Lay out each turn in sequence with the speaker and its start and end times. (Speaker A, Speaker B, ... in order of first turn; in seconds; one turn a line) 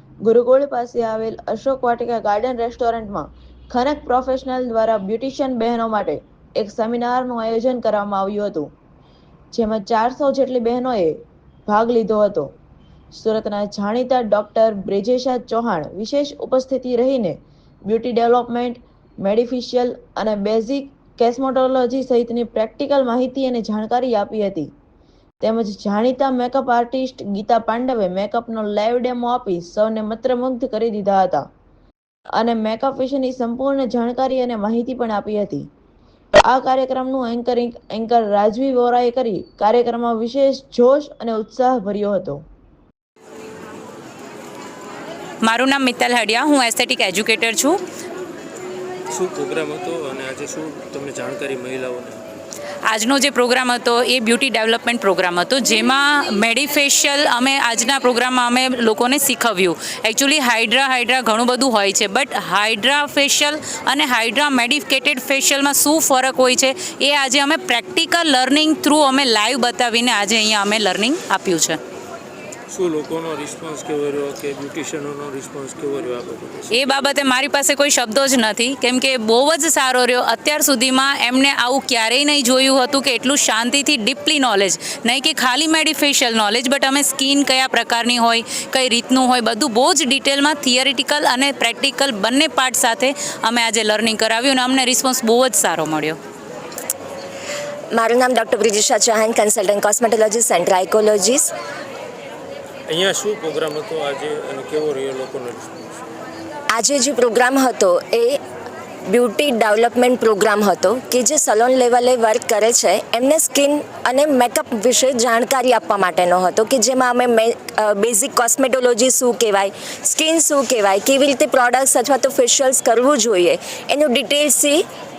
Speaker A: 0.2-8.7
Speaker A: 9.5-11.2
Speaker A: 11.7-12.5
Speaker A: 13.1-24.7
Speaker A: 25.4-31.4
Speaker A: 32.4-35.7
Speaker A: 36.4-42.4
Speaker B: 45.4-47.8
Speaker C: 49.1-52.2
Speaker B: 52.9-71.8
Speaker C: 72.7-76.9
Speaker B: 76.7-96.2
Speaker D: 97.9-101.5
Speaker C: 102.9-106.0
Speaker D: 106.7-108.4
Speaker D: 109.1-124.8